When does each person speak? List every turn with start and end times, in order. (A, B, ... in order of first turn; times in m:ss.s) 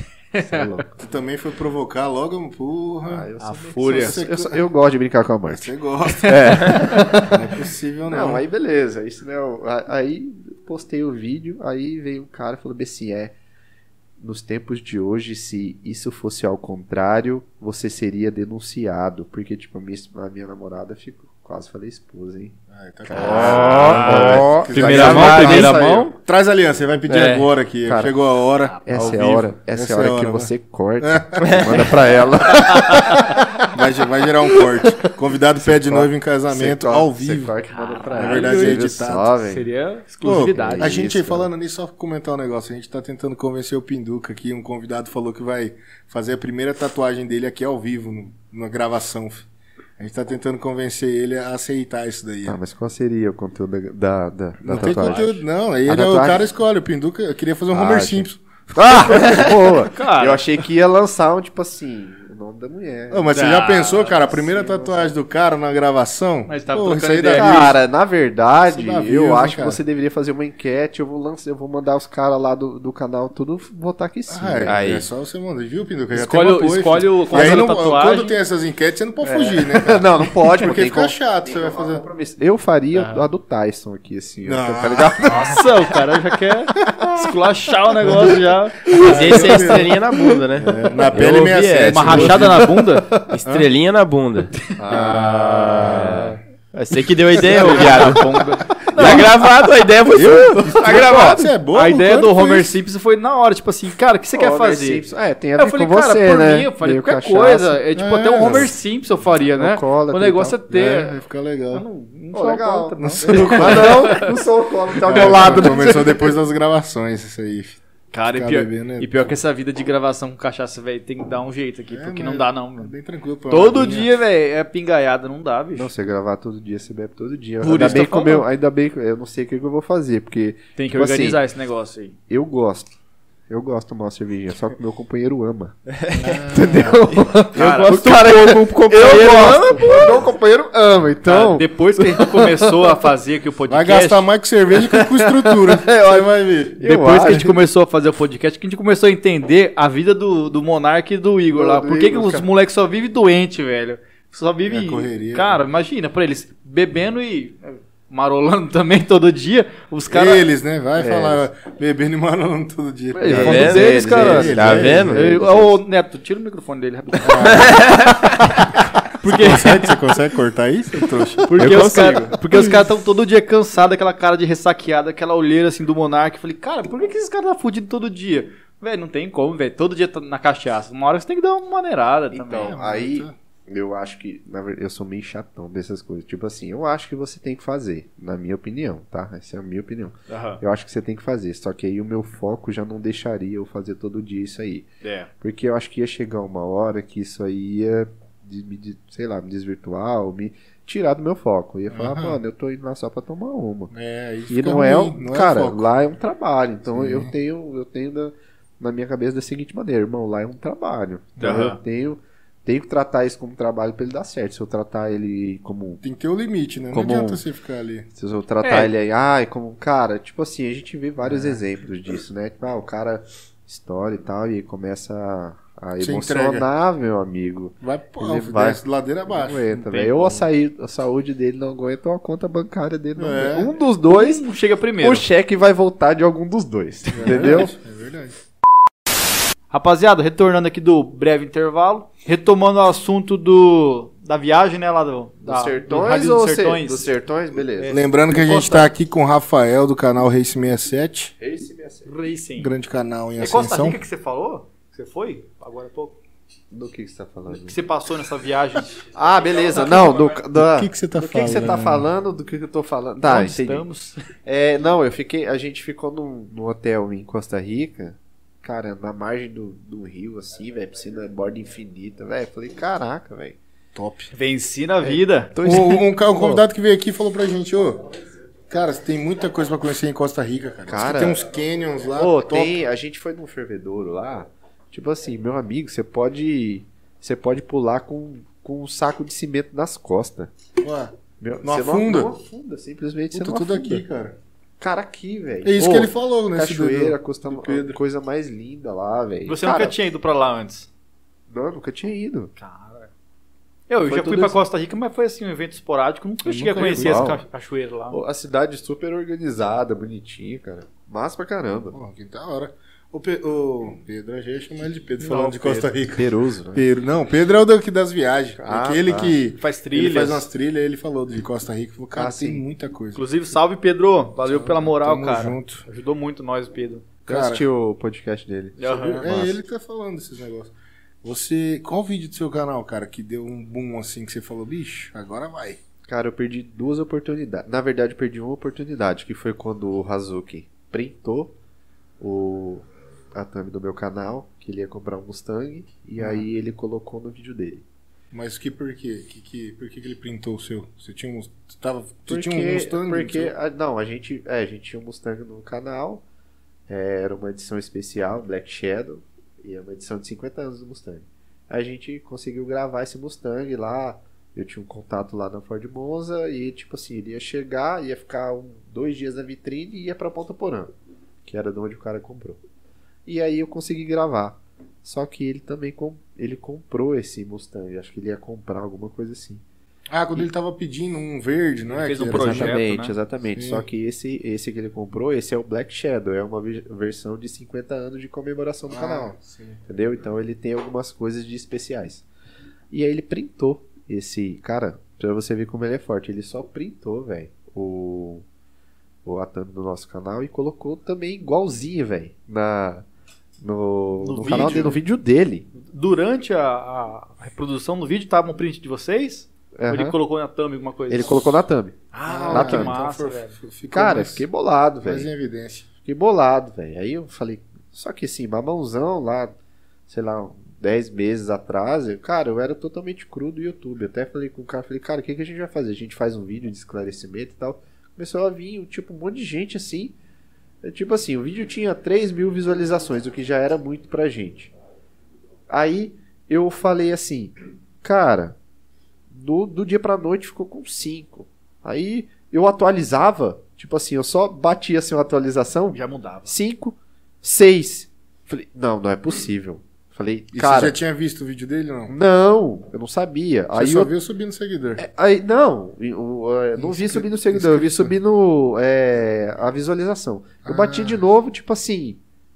0:00.3-0:00.8 A
0:00.4-0:00.9 B
0:01.0-0:03.3 C
0:03.1-0:07.5 B
0:03.4-0:04.2 A
0:03.8-0:04.6 C
0:05.5-0:08.4 C
0:06.5-0:07.2 A
0:08.1-0:13.4 B
0:14.2-0:26.2 B
0:22.7-0:37.6 C
0:23.2-0:26.1 A
0:23.6-0:24.0 D
0:24.9-0:25.6 D
0:27.1-0:27.5 A
0:27.8-0:28.2 B
0:28.8-0:29.1 A
0:28.9-0:33.4 B
0:31.4-0:31.9 D
0:32.6-0:33.3 A
0:34.6-0:39.7 B
0:37.7-0:38.8 A
0:38.1-0:39.3 C
0:39.5-0:41.1 A
0:40.2-0:49.5 C
0:40.3-0:41.5 B
0:50.0-0:52.6 C
0:52.4-0:56.4 B
0:54.6-0:59.8 C
0:54.8-0:55.3 A
0:57.7-1:03.4 B
0:59.8-1:00.4 A
1:03.1-1:07.8 C
1:03.3-1:04.3 A
1:04.0-1:05.1 B
1:06.5-1:07.7 A
1:07.3-1:14.8 B
1:08.7-1:09.8 C
1:14.3-1:22.1 C
1:14.7-1:15.1 D
1:16.1-1:18.4 A
1:19.2-1:25.7 B
1:22.9-1:23.3 A
1:24.4-1:25.6 C
1:25.2-1:29.7 A
1:28.0-1:28.4 C
1:28.9-1:30.0 C
1:28.9-1:32.5 D
1:30.6-1:32.8 C
1:31.9-1:33.1 A
1:33.3-1:35.1 D
1:34.8-1:36.2 B
1:34.9-1:36.4 A
1:34.9-1:36.3 C
1:35.7-1:41.4 D
1:37.4-1:39.3 A
1:37.6-1:38.1 C
1:40.1-1:42.8 C
1:40.8-1:45.0 A
1:44.3-1:47.8 B
1:45.6-1:51.2 A
1:48.0-1:48.7 C
1:48.4-1:48.8 B
1:49.5-1:50.6 B
1:50.7-1:51.9 C
1:51.7-1:54.4 A
1:52.3-1:56.3 B
1:53.0-1:54.2 C
1:55.0-1:57.8 C
1:55.1-1:56.0 A
1:58.1-2:02.9 A
1:58.3-1:59.4 C
2:01.9-2:04.1 C
2:03.5-2:05.9 A
2:05.8-2:11.4 B
2:07.6-2:08.5 A
2:10.8-2:12.2 A
2:12.3-2:12.9 B
2:13.5-2:23.0 B
2:16.1-2:17.1 C
2:17.5-2:20.3 A
2:17.6-2:17.9 C
2:21.2-2:24.3 A
2:23.7-2:27.4 C
2:24.9-2:27.6 B
2:26.8-2:40.4 A
2:31.5-2:32.5 B
2:34.7-2:35.6 C
2:40.1-2:45.3 C
2:41.0-2:41.4 B
2:43.1-2:49.9 A
2:43.3-2:45.8 B
2:43.4-2:45.3 D
2:47.2-2:48.2 C
2:49.2-2:51.9 C
2:51.4-3:02.8 A
2:51.6-2:52.4 D
2:51.6-2:52.0 B
3:02.3-3:14.9 B
3:02.6-3:03.3 C
3:10.3-3:10.6 A
3:15.0-3:15.3 A
3:15.4-3:23.9 B
3:21.9-3:22.4 C
3:23.9-3:25.9 C
3:24.5-3:36.0 B
3:26.9-3:27.3 C
3:31.4-3:31.8 A
3:36.0-3:38.1 C
3:36.9-3:37.4 B
3:38.2-3:54.4 B
3:38.6-3:38.9 A
3:41.2-3:41.6 C
3:46.0-3:46.7 C
3:47.8-3:50.4 C
3:49.9-3:50.4 A
3:53.2-3:53.7 C
3:54.1-3:55.3 A
3:55.0-3:57.7 B
3:57.2-3:58.4 C
3:59.7-4:07.1 A
4:05.4-4:08.0 B
4:07.8-4:08.9 A
4:07.9-4:11.3 C
4:11.4-4:12.1 B
4:12.1-4:12.7 A
4:12.6-4:14.0 C
4:13.4-4:16.2 A
4:16.7-4:17.8 B
4:17.5-4:19.1 A
4:19.1-4:23.8 B
4:19.8-4:20.2 A
4:20.0-4:22.1 C
4:23.2-4:24.2 A
4:24.4-4:33.6 B
4:34.0-4:34.3 C
4:34.3-4:35.5 A
4:35.0-4:36.6 B
4:35.6-4:38.0 C
4:38.7-4:42.8 C
4:40.9-4:41.5 B
4:42.2-4:50.5 B
4:50.8-4:52.3 C
4:51.4-4:54.0 B
4:53.3-4:54.4 C
4:54.8-5:00.0 B
4:55.6-4:58.0 C
4:59.5-5:00.9 A
5:01.5-5:02.5 B
5:02.6-5:03.1 A
5:03.9-5:08.2 A
5:04.1-5:04.6 B
5:06.4-5:07.4 C
5:06.8-5:07.4 B
5:08.1-5:12.0 B
5:11.9-5:23.2 C
5:15.2-5:15.9 A
5:16.1-5:16.9 B
5:18.6-5:19.4 B
5:19.6-5:20.5 A
5:22.2-5:22.6 B
5:23.2-5:27.1 A
5:24.5-5:25.8 C
5:27.3-5:29.6 B
5:27.3-5:27.6 C
5:28.8-5:29.3 A
5:29.2-5:35.8 C
5:36.1-5:41.6 B
5:42.2-5:47.8 B
5:46.2-5:46.5 C
5:48.3-5:53.5 C
5:52.3-5:56.2 B
5:56.9-6:10.9 B
6:11.4-6:12.6 B
6:13.3-6:19.6 B
6:20.1-6:22.8 C
6:21.9-6:23.2 A
6:22.3-6:29.3 B
6:23.6-6:23.9 C
6:28.9-6:29.8 C
6:29.9-6:32.2 B
6:32.9-6:38.4 B
6:39.2-6:43.0 B
6:43.6-6:45.7 B
6:44.2-6:45.0 A
6:44.4-6:45.0 C
6:45.8-6:51.5 A
6:49.8-6:50.2 B
6:51.1-6:52.0 B
6:52.1-6:53.6 A
6:52.3-6:54.5 C
6:52.5-6:53.0 B
6:53.9-6:55.3 B
6:55.0-6:55.9 C
6:56.0-6:59.6 B
7:00.1-7:10.2 B
7:10.8-7:14.7 B
7:15.7-7:18.6 B
7:19.3-7:31.0 B
7:25.9-7:26.5 A
7:30.5-7:32.1 C
7:32.1-7:34.1 B
7:33.7-7:35.0 C
7:35.0-7:42.2 B
7:36.8-7:38.2 C
7:40.6-7:41.3 C